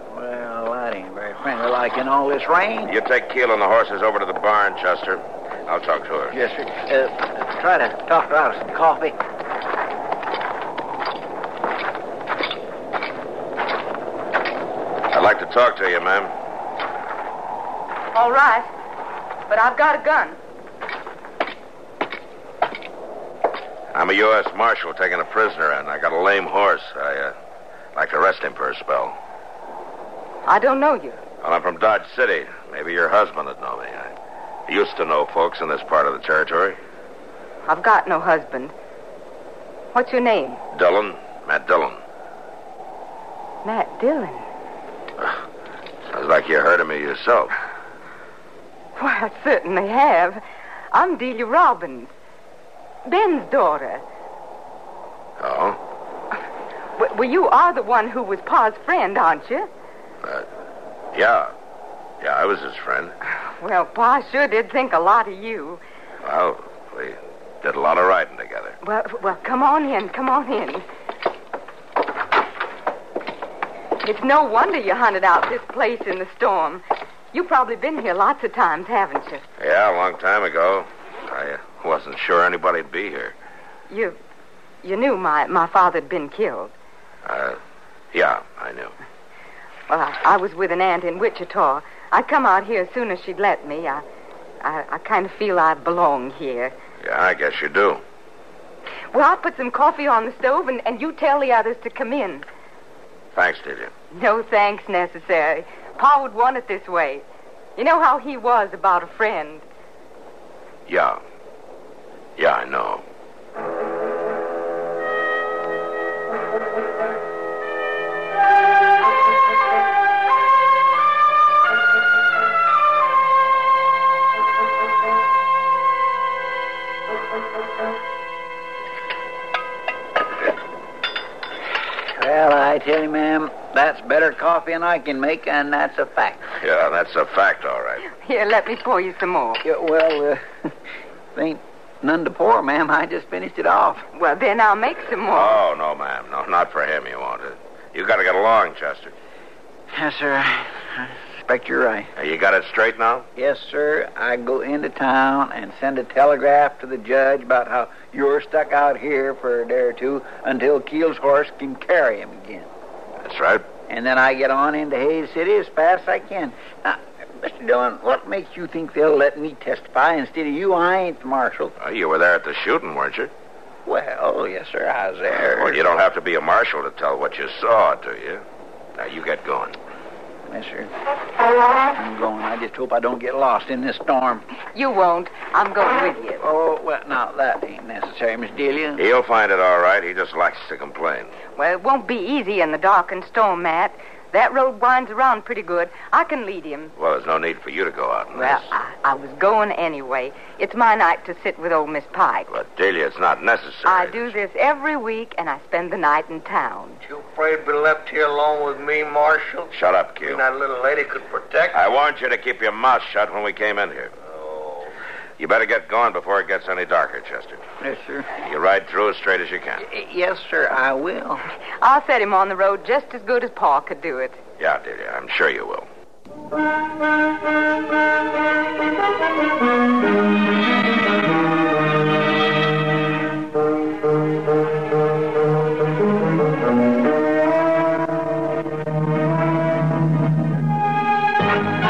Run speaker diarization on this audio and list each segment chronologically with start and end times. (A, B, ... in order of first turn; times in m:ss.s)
0:00.1-0:02.9 A
0:02.8-0:06.4 B
0:06.3-0:09.2 A
0:15.1-0:16.3 B
0:18.1-0:18.7 C
0:19.5-0:20.4 C
0:23.9-0:27.3 B
0:28.0-0:29.1 B
0:30.5-0:31.2 C
0:31.4-0:34.1 B
0:34.7-0:36.8 B
0:37.7-0:38.7 C
0:39.9-0:40.6 C
0:40.7-0:42.0 B
0:43.6-0:44.5 C
0:46.1-0:47.5 B
0:49.0-0:50.4 C
0:50.9-0:52.1 C
0:53.1-0:54.0 C
0:55.4-0:55.8 B
0:57.0-0:59.7 C
1:01.1-1:01.5 B
1:02.2-1:03.2 B
1:03.6-1:05.8 C
1:06.2-1:08.8 B
1:08.8-1:10.8 C
1:14.0-1:16.8 C
1:17.3-1:19.4 C
1:19.6-1:23.3 B
1:23.9-1:24.2 C
1:24.8-1:26.7 C
1:27.2-1:27.6 B
1:28.1-1:28.9 B
1:29.9-1:34.0 C
1:34.6-1:36.7 C
1:37.0-1:38.0 B
1:39.1-1:42.4 C
1:43.3-1:43.9 B
1:44.1-1:47.2 C
1:47.8-1:49.6 C
1:50.9-1:51.2 B
1:52.4-1:53.0 B
2:12.2-2:16.4 A
2:16.6-2:18.0 B
2:18.1-2:19.6 C
2:19.6-2:20.4 A
2:21.4-2:24.0 A
2:24.1-2:25.6 C
2:25.3-2:29.1 B
2:29.9-2:32.1 A
2:32.2-2:33.3 B
2:33.4-2:42.7 A
2:43.2-2:43.6 B
2:43.9-2:51.7 A
2:51.8-2:53.3 B
2:53.9-2:55.8 A
2:55.4-2:58.4 B
2:59.0-2:59.8 B
3:00.5-3:00.9 A
3:01.9-3:04.4 A
3:04.7-3:06.4 C
3:06.4-3:09.0 A
3:09.0-3:11.3 B
3:11.6-3:16.9 C
3:17.0-3:18.7 B
3:18.4-3:22.5 C
3:22.5-3:24.3 B
3:23.9-3:27.0 C
3:27.0-3:31.8 D
3:29.7-3:30.4 B
3:31.7-3:34.1 B
3:35.4-3:37.6 B
3:37.8-3:38.3 A
3:38.4-3:39.8 B
3:39.8-3:41.4 A
3:41.8-3:44.4 C
3:44.6-3:45.9 B